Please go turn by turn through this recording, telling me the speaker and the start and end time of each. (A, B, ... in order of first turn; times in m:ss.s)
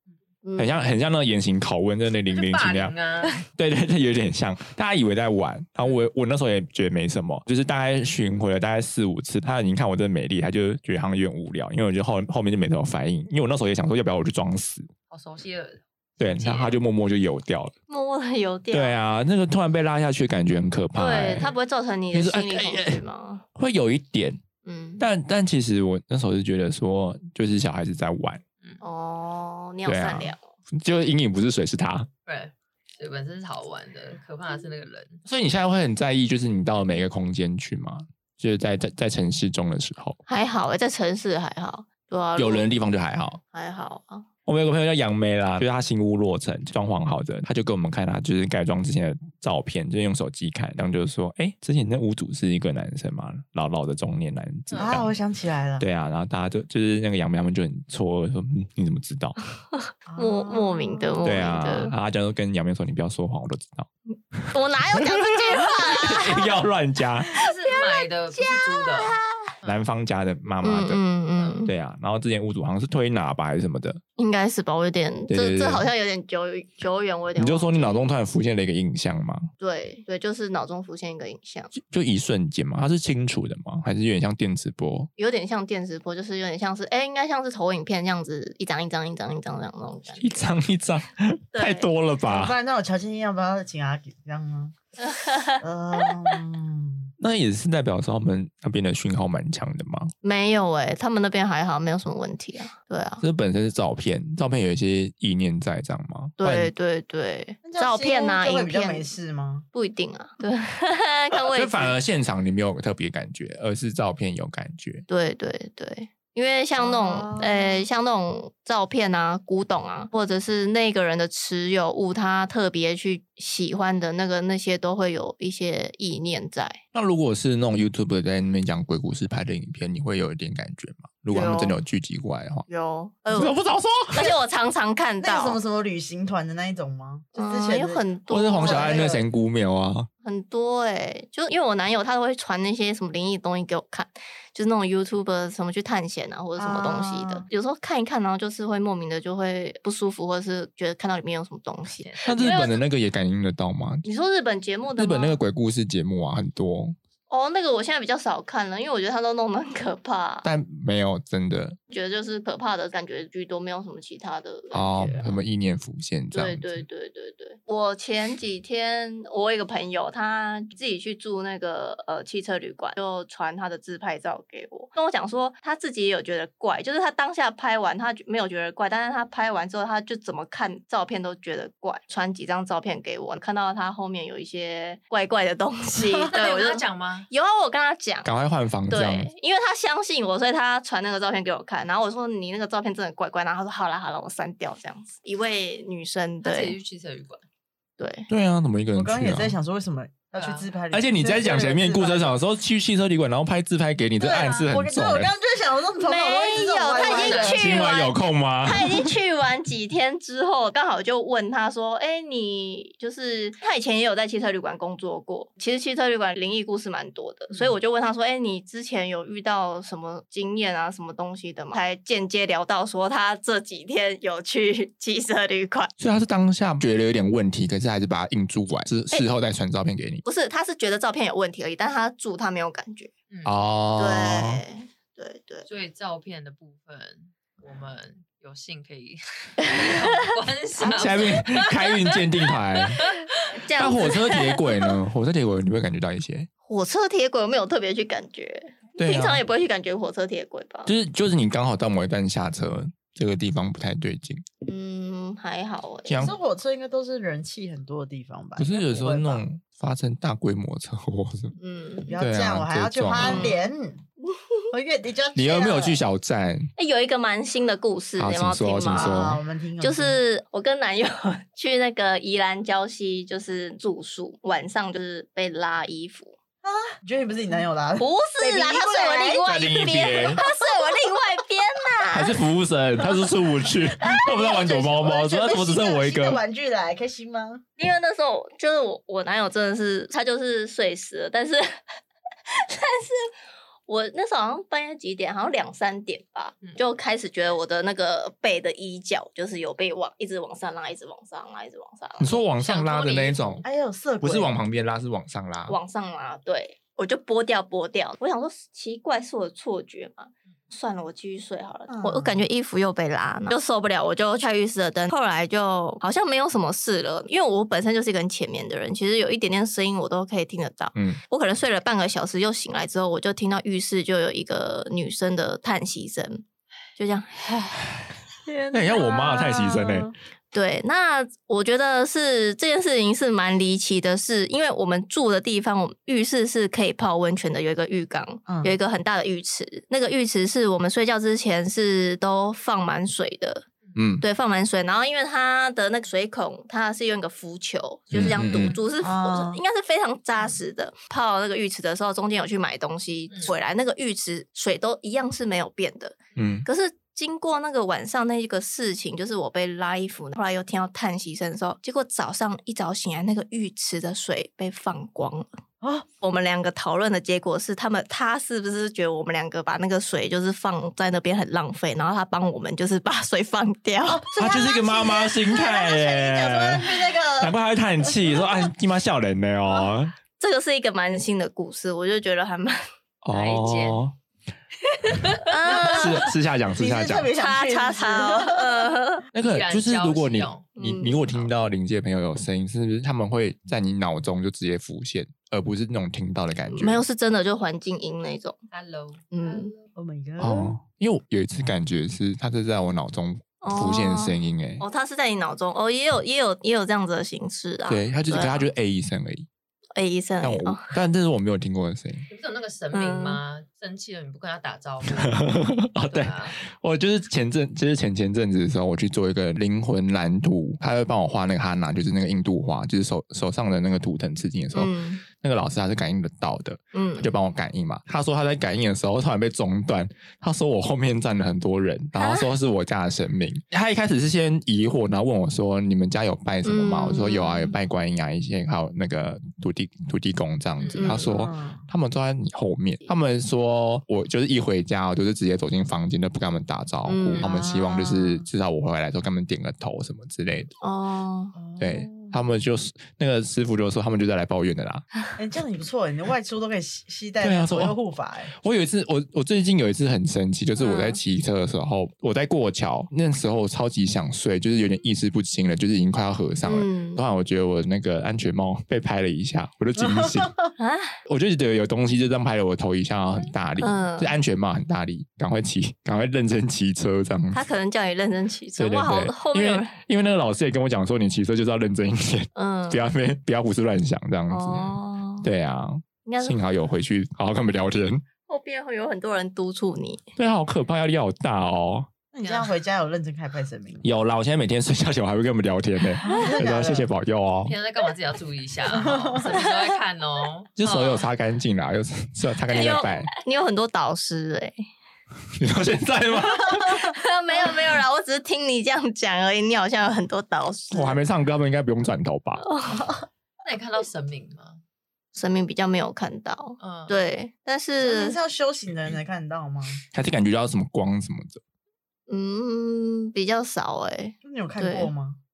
0:00.4-0:00.8 A
0:00.6-0:03.0 B
0:02.2-0:03.4 C
0:03.5-0:14.9 B
0:15.1-0:16.8 C
0:16.2-0:17.7 B
0:17.9-0:19.0 A
0:18.7-0:21.5 B
0:21.0-0:23.4 A
0:22.1-0:23.0 B
0:23.6-0:24.4 B
0:24.6-0:25.0 A
0:25.0-0:28.4 B
0:28.8-0:30.4 A
0:29.8-0:32.1 B
0:32.2-0:35.2 C
0:35.2-0:40.2 B
0:40.3-0:42.7 A
0:42.4-0:43.4 B
0:43.5-0:44.2 A
0:44.4-0:55.2 B
0:54.7-0:55.0 C
0:54.8-0:55.8 D
0:55.8-0:59.4 B
0:59.7-1:01.9 A
1:00.0-1:01.3 D
1:01.2-1:07.3 B
1:04.1-1:06.6 A
1:07.2-1:09.2 A
1:07.3-1:09.8 C
1:09.6-1:11.0 B
1:10.6-1:11.7 A
1:11.4-1:11.7 C
1:11.6-1:14.0 B
1:14.2-1:18.1 A
1:15.3-1:15.9 B
1:17.4-1:19.5 B
1:19.6-1:21.7 A
1:21.7-1:25.1 B
1:25.2-1:30.4 A
1:30.1-1:32.5 B
1:31.5-1:31.9 A
1:32.2-1:34.7 D
1:35.0-1:35.6 A
1:35.6-1:37.1 D
1:37.2-1:40.1 B
1:40.2-1:43.2 A
1:43.2-1:46.7 B
1:46.4-1:49.1 A
1:47.6-1:49.6 D
1:49.7-1:52.0 A
1:51.5-1:55.0 B
1:55.1-2:06.8 A
1:56.8-1:57.8 D
2:06.9-2:12.6 B
2:11.3-2:11.8 A
2:12.7-2:13.5 A
2:13.3-2:14.3 B
2:14.1-2:15.6 A
2:15.2-2:18.0 D
2:17.3-2:19.2 A
2:18.3-2:20.1 B
2:18.6-2:19.2 D
2:20.2-2:32.8 A
2:26.6-2:27.5 D
2:32.0-2:32.6 C
2:32.2-2:34.0 B
2:34.0-2:35.4 A
2:35.0-2:37.0 B
2:37.3-2:40.5 A
2:40.4-2:41.8 B
2:41.9-2:45.4 A
2:44.7-2:46.8 B
2:46.3-3:08.3 A
3:05.9-3:06.3 D
3:06.3-3:07.3 C
3:08.2-3:09.3 B
3:08.9-3:16.8 A
3:16.4-3:17.4 C
3:18.0-3:18.3 A
3:18.3-3:19.5 B
3:18.9-3:22.4 D
3:20.3-3:20.7 C
3:20.9-3:25.3 B
3:24.2-3:27.7 D
3:24.2-3:24.7 C
3:26.0-3:45.9 A
3:27.0-3:27.7 C
3:27.5-3:29.0 B
3:46.0-3:50.2 B
3:50.2-3:53.1 A
3:53.3-3:53.6 C
3:53.4-3:54.6 B
3:54.0-3:55.7 A
3:55.6-4:03.4 C
3:59.6-4:00.2 A
4:00.8-4:03.0 B
4:03.6-4:04.9 A
4:03.8-4:06.5 B
4:06.6-4:10.9 A
4:09.0-4:09.4 B
4:10.8-4:14.4 B
4:14.6-4:16.3 A
4:16.1-4:16.3 B
4:16.2-4:19.4 D
4:18.6-4:21.5 B
4:21.6-4:22.2 A
4:22.1-4:24.0 D
4:22.2-4:23.5 B
4:23.2-4:23.6 A
4:24.7-4:26.0 D
4:25.3-4:26.7 B
4:26.8-4:36.4 A
4:28.2-4:29.4 B
4:28.9-4:30.2 D
4:36.6-4:39.4 D
4:38.0-4:42.4 A
4:39.4-4:40.4 B
4:42.1-4:46.4 B
4:44.0-4:47.6 D
4:47.8-4:51.8 A
4:52.5-4:53.3 A
4:53.9-5:02.4 A
5:02.2-5:03.6 B
5:02.6-5:03.6 C
5:03.6-5:04.6 D
5:04.2-5:05.8 B
5:05.7-5:26.4 A
5:11.9-5:12.4 D
5:20.9-5:21.2 B
5:27.0-5:27.8 A
5:28.4-5:30.1 D
5:28.7-5:30.1 B
5:30.5-5:43.6 A
5:38.5-5:38.7 D
5:44.0-5:44.2 B
5:44.2-6:05.5 A
5:48.1-5:48.8 B
5:49.0-5:49.6 D
5:56.4-5:56.7 B
6:05.8-6:06.0 D
6:06.2-6:14.7 A
6:14.1-6:18.4 D
6:14.4-6:20.2 B
6:20.4-6:22.8 A
6:23.2-6:24.1 B
6:23.3-6:24.0 C
6:25.0-6:25.9 C
6:25.4-6:26.3 A
6:25.7-6:27.3 B
6:26.7-6:28.9 D
6:27.4-6:29.2 A
6:29.3-6:37.0 B
6:29.4-6:30.7 C
6:30.8-6:31.3 A
6:36.7-6:38.6 A
6:38.7-6:39.8 C
6:39.3-6:39.7 A
6:40.0-6:40.8 D
6:40.4-6:44.8 B
6:43.6-6:48.7 A
6:47.9-6:49.5 B
6:50.0-6:50.8 A
6:50.4-6:52.2 B
6:52.3-6:55.4 C
6:52.9-6:53.4 A
6:55.1-7:30.7 B
6:56.1-6:56.6 C
7:04.7-7:05.2 A
7:06.9-7:07.3 A
7:12.2-7:12.5 A
7:16.6-7:17.7 A
7:20.8-7:21.2 C
7:21.0-7:21.3 A
7:21.0-7:21.8 D
7:27.0-7:27.5 A
7:27.4-7:28.5 D
7:30.8-7:31.5 A
7:31.5-7:32.3 D
7:31.8-7:35.1 B
7:35.4-7:38.5 D
7:37.4-7:37.9 B
7:38.6-7:50.6 B
7:40.8-7:41.2 A
7:46.6-7:47.2 A
7:50.0-7:50.7 D
7:50.8-7:51.2 A
7:51.2-7:57.6 B
7:53.8-7:54.4 A
7:57.5-8:00.0 A
7:58.8-8:08.2 B
8:02.5-8:03.0 A
8:04.5-8:05.5 A
8:06.2-8:06.6 A
8:08.5-8:10.2 A
8:10.4-8:12.1 B
8:12.3-8:14.0 D
8:12.4-8:12.7 C
8:14.0-8:17.7 B
8:16.2-8:17.1 D
8:16.3-8:16.6 A
8:17.6-8:21.3 C
8:18.9-8:19.6 D
8:19.4-8:19.9 A
8:20.8-8:23.3 B
8:22.7-8:24.8 A
8:25.6-8:27.1 B
8:26.9-8:31.2 A
8:30.9-8:32.6 B
8:32.6-8:33.1 A
8:33.6-8:34.8 C
8:35.3-8:38.4 A
8:36.8-8:37.2 C
8:38.0-8:40.0 D
8:40.1-8:41.6 B
8:42.3-8:45.1 A
8:44.4-8:45.4 D